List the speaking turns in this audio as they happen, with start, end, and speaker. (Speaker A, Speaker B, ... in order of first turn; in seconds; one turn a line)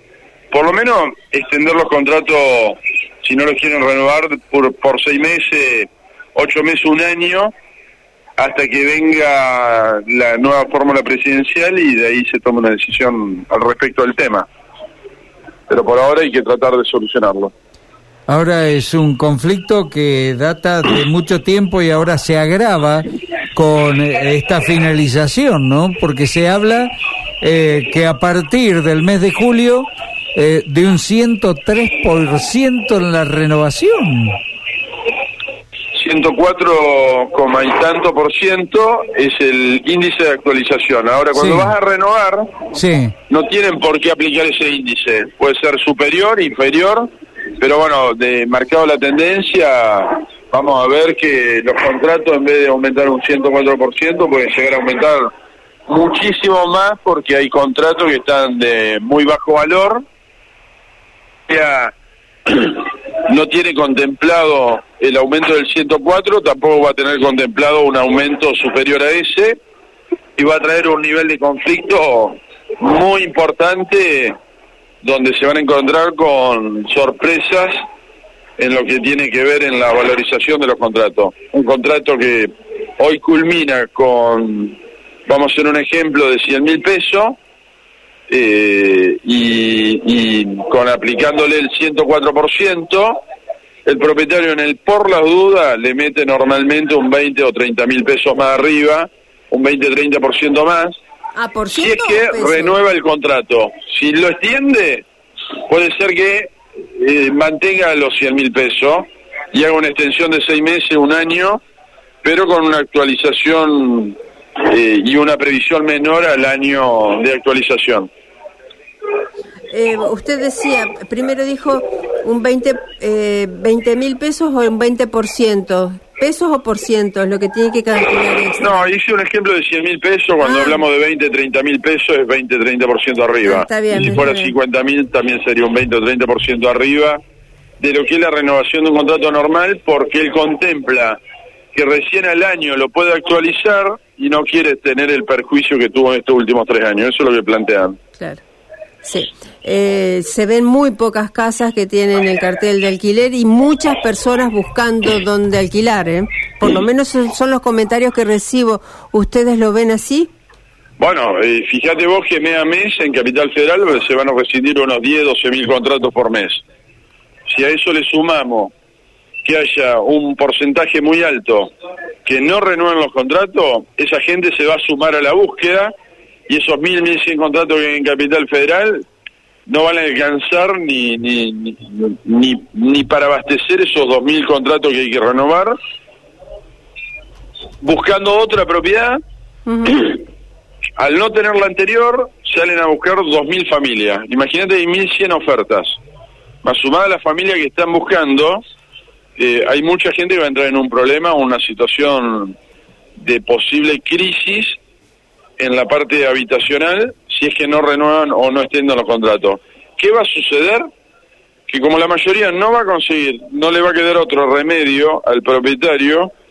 Speaker A: 0.5-7.5
Speaker A: 8.4-14.5
Speaker A: 15.7-17.5
Speaker B: 18.3-34.4
Speaker A: 35.9-42.6
Speaker B: 41.4-41.7
Speaker B: 42.7-43.1
Speaker A: 43.3-55.3
Speaker A: 55.9-60.0
Speaker A: 61.5-61.9
Speaker A: 62.5-69.6
Speaker A: 70.4-74.4
Speaker A: 75.0-77.8
Speaker A: 78.6-87.4
Speaker A: 88.3-93.2
Speaker A: 93.8-101.0
Speaker C: 101.3-102.8
Speaker A: 101.7-105.0
Speaker A: 105.7-111.6
Speaker A: 112.2-118.1
Speaker C: 119.7-128.8
Speaker A: 128.6-137.2
Speaker C: 130.4-130.8
Speaker C: 133.4-134.5
Speaker A: 137.8-141.2
Speaker A: 141.7-148.0
Speaker C: 149.0-160.3
Speaker A: 161.0-166.6
Speaker A: 167.5-168.7
Speaker A: 169.4-171.7
Speaker A: 172.2-175.9
Speaker A: 176.5-179.1
Speaker A: 179.7-185.8
Speaker A: 187.8-189.2
Speaker C: 189.7-190.0
Speaker A: 189.9-190.2
Speaker A: 191.0-196.0
Speaker A: 196.6-198.6
Speaker A: 199.4-202.6
Speaker A: 203.2-204.8
Speaker A: 205.6-210.8
Speaker A: 211.7-216.3